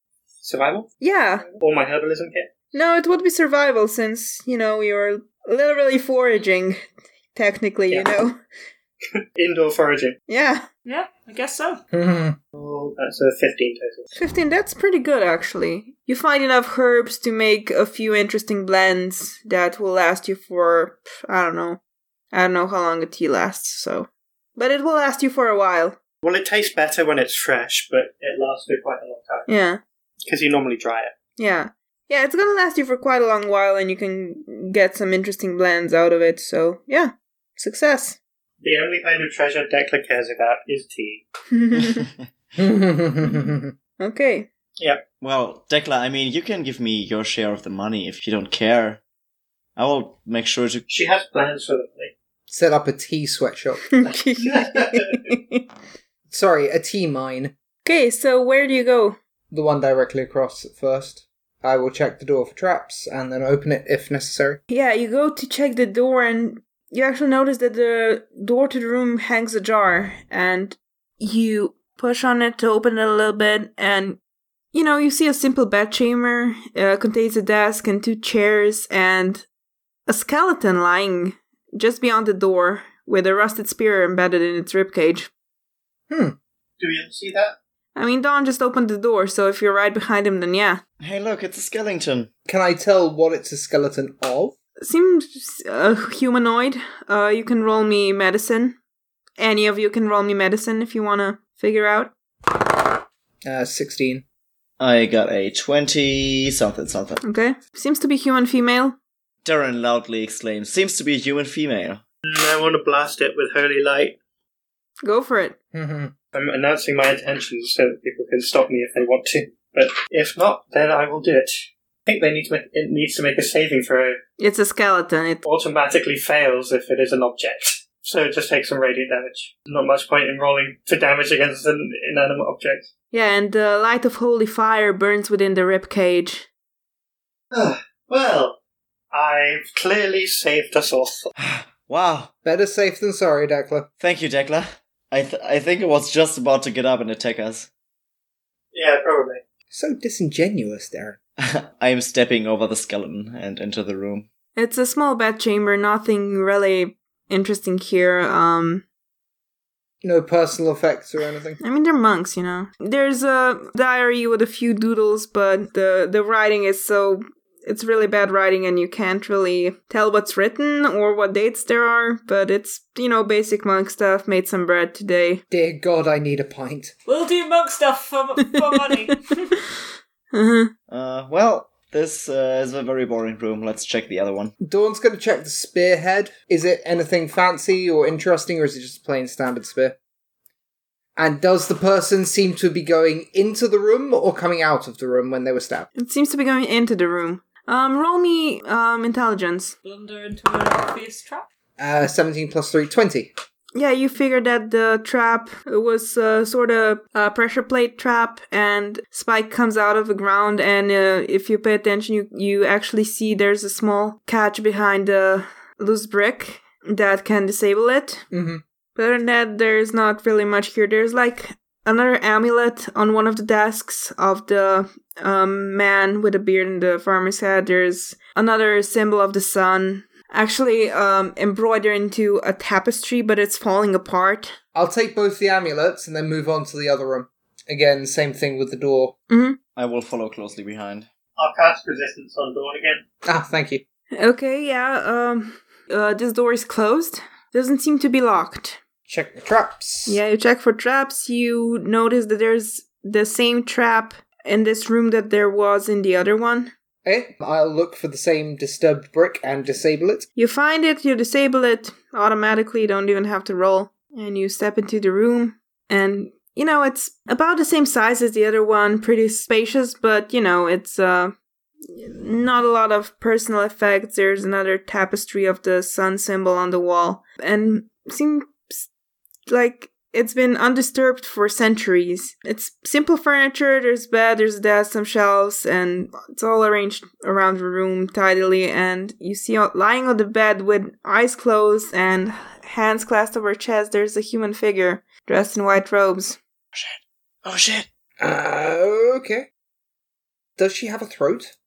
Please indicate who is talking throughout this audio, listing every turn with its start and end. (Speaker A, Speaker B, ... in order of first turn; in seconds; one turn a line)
Speaker A: 0.4-2.6
Speaker B: 1.0-1.4
Speaker B: 2.7-6.8
Speaker B: 7.3-8.4
Speaker A: 9.3-10.2
Speaker B: 10.3-10.7
Speaker C: 10.8-11.8
Speaker D: 11.9-12.4
Speaker A: 12.5-14.1
Speaker B: 14.2-21.8
Speaker B: 22.3-26.0
Speaker A: 26.2-29.5
Speaker B: 29.5-29.8
Speaker A: 30.2-31.1
Speaker B: 31.4-38.2
Speaker A: 38.6-41.2
Speaker B: 41.5-42.1
Speaker E: 42.0-42.2
Speaker D: 42.6-43.7
Speaker B: 44.0-44.5
Speaker E: 45.2-49.0
Speaker E: 49.8-50.9
Speaker A: 50.9-52.1
Speaker D: 52.5-53.9
Speaker B: 53.9-55.7
Speaker A: 54.4-55.2
Speaker D: 56.3-57.5
Speaker B: 57.8-59.2
Speaker D: 59.5-64.6
Speaker B: 64.7-74.2
Speaker B: 74.7-79.5
Speaker B: 80.1-85.3
Speaker D: 86.1-86.3
Speaker A: 86.8-87.5
Speaker B: 88.0-90.8
Speaker E: 91.0-92.3
Speaker D: 92.5-94.5
Speaker B: 94.8-98.8
Speaker B: 99.4-102.1
Speaker D: 103.4-104.2
Speaker E: 104.8-107.2
Speaker B: 107.2-109.0
Speaker E: 109.4-112.0
Speaker A: 112.3-114.2
Speaker B: 115.0-115.5
Speaker D: 115.7-116.1
Speaker A: 116.3-124.2
Speaker B: 124.4-125.4
Speaker A: 125.4-132.9
Speaker B: 133.1-136.5
Speaker A: 137.5-138.6
Speaker A: 139.1-141.2
Speaker E: 141.4-142.3
Speaker D: 142.4-143.9
Speaker E: 144.0-147.7
Speaker A: 148.7-149.4
Speaker D: 149.7-151.2
Speaker E: 151.4-154.3
Speaker B: 154.6-158.8
Speaker D: 160.0-161.6
Speaker B: 161.6-175.4
Speaker D: 175.5-176.9
Speaker C: 177.1-179.3
Speaker B: 178.9-179.1
Speaker B: 180.3-180.7
Speaker E: 180.9-184.5
Speaker D: 184.6-189.9
Speaker D: 191.2-195.9
Speaker B: 195.9-199.7
Speaker C: 199.8-201.4
Speaker D: 201.8-203.3
Speaker B: 203.7-218.2
Speaker D: 218.3-218.6
Speaker B: 218.9-234.6
Speaker D: 234.7-239.1
Speaker B: 239.3-239.6
Speaker E: 239.8-241.1
Speaker A: 241.4-243.0
Speaker D: 243.2-243.8
Speaker B: 244.2-248.8
Speaker D: 249.1-250.2
Speaker B: 250.1-256.7
Speaker D: 257.0-260.2
Speaker B: 260.4-271.3
Speaker B: 271.9-278.8
Speaker B: 279.5-296.4
Speaker E: 296.7-297.9
Speaker D: 298.2-299.5
Speaker D: 300.6-301.5